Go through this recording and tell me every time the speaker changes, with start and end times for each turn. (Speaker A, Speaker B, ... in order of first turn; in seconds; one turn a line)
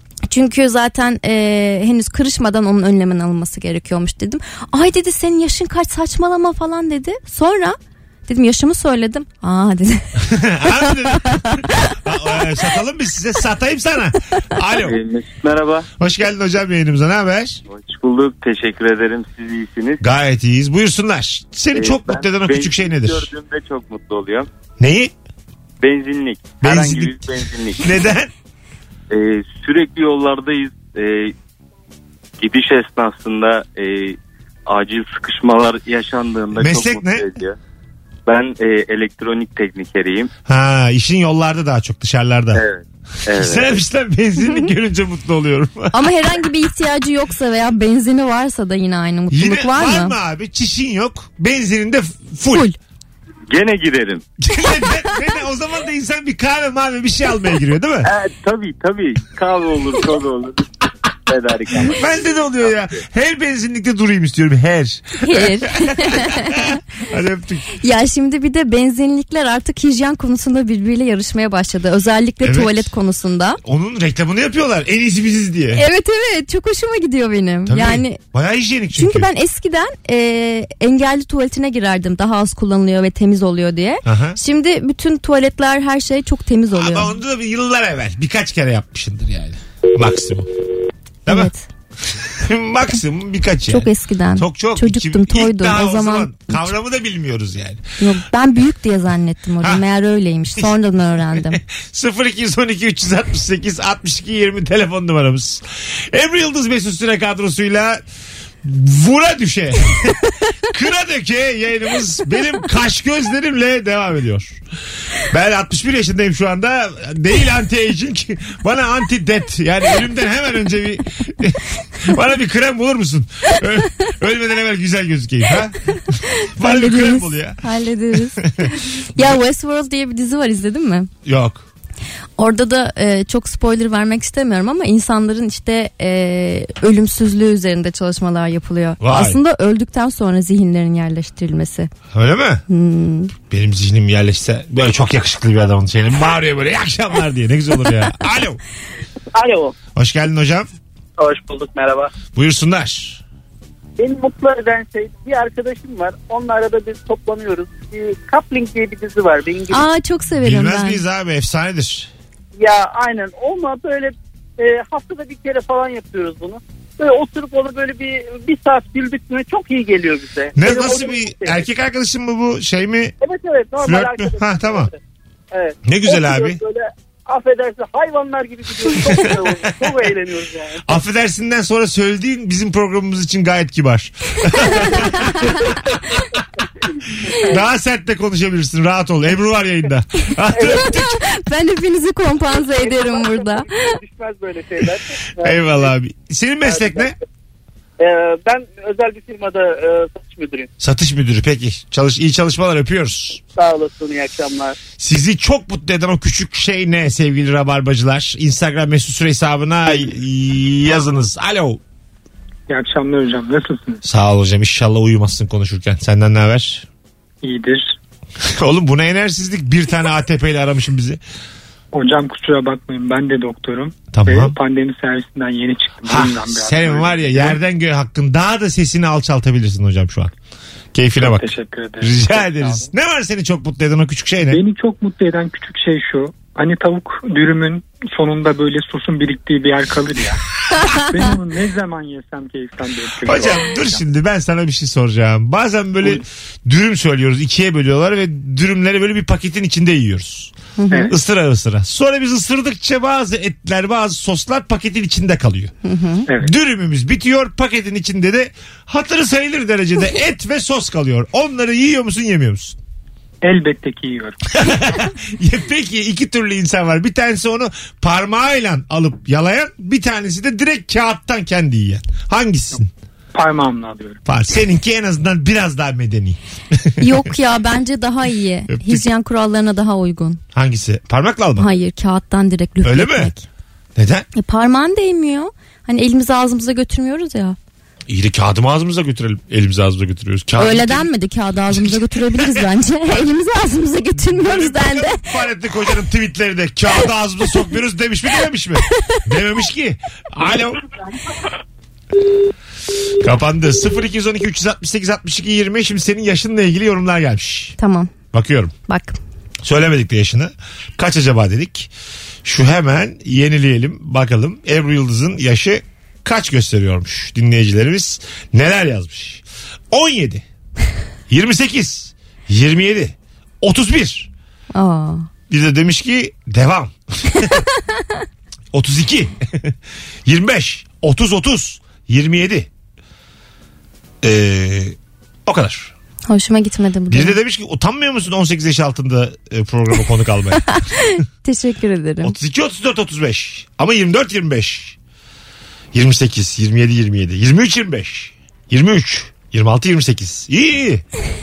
Speaker A: 0.3-10.1
Speaker B: 10.2-14.9
Speaker A: 10.7-12.4
Speaker C: 14.8-15.9
Speaker B: 16.0-17.6
Speaker C: 17.7-20.0
Speaker B: 20.0-23.3
Speaker C: 21.7-24.5
Speaker B: 24.8-25.1
Speaker C: 25.8-28.0
Speaker B: 26.6-28.3
Speaker C: 29.1-31.3
Speaker C: 32.4-37.6
Speaker B: 36.5-37.2
Speaker C: 38.3-40.3
Speaker B: 40.5-42.6
Speaker C: 42.5-43.8
Speaker B: 43.4-46.1
Speaker A: 45.9-50.1
Speaker B: 49.3-52.7
Speaker C: 53.5-54.2
Speaker B: 54.4-58.1
Speaker C: 58.0-60.7
Speaker C: 61.3-63.0
Speaker B: 61.9-67.7
Speaker A: 65.2-66.8
Speaker A: 67.8-73.6
Speaker B: 72.4-72.9
Speaker B: 73.6-75.8
Speaker A: 75.7-78.2
Speaker B: 77.7-79.3
Speaker A: 78.9-87.1
Speaker B: 84.0-84.4
Speaker B: 86.7-90.5
Speaker A: 91.3-91.7
Speaker B: 92.1-97.8
Speaker A: 93.7-96.7
Speaker A: 98.0-101.6
Speaker B: 101.2-108.0
Speaker B: 108.6-114.6
Speaker B: 115.3-127.6
Speaker A: 126.1-131.1
Speaker B: 128.4-129.2
Speaker B: 131.2-131.7
Speaker A: 132.4-141.9
Speaker B: 139.0-139.4
Speaker B: 142.1-142.6
Speaker A: 142.7-143.3
Speaker B: 143.5-148.6
Speaker D: 149.3-149.7
Speaker B: 149.9-150.7
Speaker D: 151.2-152.1
Speaker B: 152.3-153.2
Speaker D: 154.0-159.8
Speaker A: 159.7-161.0
Speaker B: 160.4-162.1
Speaker D: 162.6-171.6
Speaker B: 170.6-173.2
Speaker D: 173.2-174.9
Speaker B: 173.8-174.9
Speaker D: 175.5-180.9
Speaker B: 175.8-176.6
Speaker B: 179.0-179.5
Speaker B: 180.8-185.8
Speaker A: 184.8-185.6
Speaker D: 186.4-187.6
Speaker B: 187.2-191.2
Speaker D: 190.5-191.0
Speaker A: 190.6-194.0
Speaker D: 192.7-195.9
Speaker B: 195.4-197.1
Speaker D: 196.6-197.1
Speaker D: 198.0-200.7
Speaker B: 200.8-203.4
Speaker D: 203.6-204.8
Speaker B: 205.0-211.8
Speaker E: 212.7-214.0
Speaker B: 214.1-216.9
Speaker E: 217.4-218.0
Speaker B: 218.4-221.2
Speaker E: 221.9-227.6
Speaker B: 224.1-224.5
Speaker B: 226.1-230.3
Speaker B: 230.9-231.5
Speaker E: 231.2-232.9
Speaker B: 232.0-234.6
Speaker E: 234.5-240.4
Speaker E: 240.9-244.0
Speaker B: 243.3-250.5
Speaker A: 250.8-251.1
Speaker E: 250.9-251.2
Speaker B: 251.1-255.7
Speaker A: 255.8-256.3
Speaker B: 256.3-262.8
Speaker E: 263.4-264.4
Speaker B: 264.5-272.9
Speaker E: 273.3-274.2
Speaker B: 274.3-277.3
Speaker A: 277.0-280.4
Speaker B: 278.7-279.1
Speaker B: 280.5-281.7
Speaker A: 281.6-283.5
Speaker B: 282.8-283.3
Speaker B: 284.0-284.3
Speaker A: 284.4-287.6
Speaker B: 288.1-291.1
Speaker A: 290.6-295.2
Speaker B: 291.7-292.7
Speaker B: 294.2-300.8
Speaker B: 303.2-307.8
Speaker A: 307.8-308.1
Speaker B: 308.3-308.7
Speaker A: 308.9-309.2
Speaker B: 309.6-311.9
Speaker B: 312.4-320.4
Speaker B: 321.3-324.3
Speaker A: 324.8-325.3
Speaker B: 325.5-327.6
Speaker A: 327.9-328.2
Speaker B: 328.7-329.8
Speaker B: 330.3-332.7
Speaker B: 334.2-335.9
Speaker A: 336.3-337.4
Speaker B: 337.1-340.6
Speaker A: 340.7-342.4
Speaker B: 342.2-345.0
Speaker B: 345.9-351.0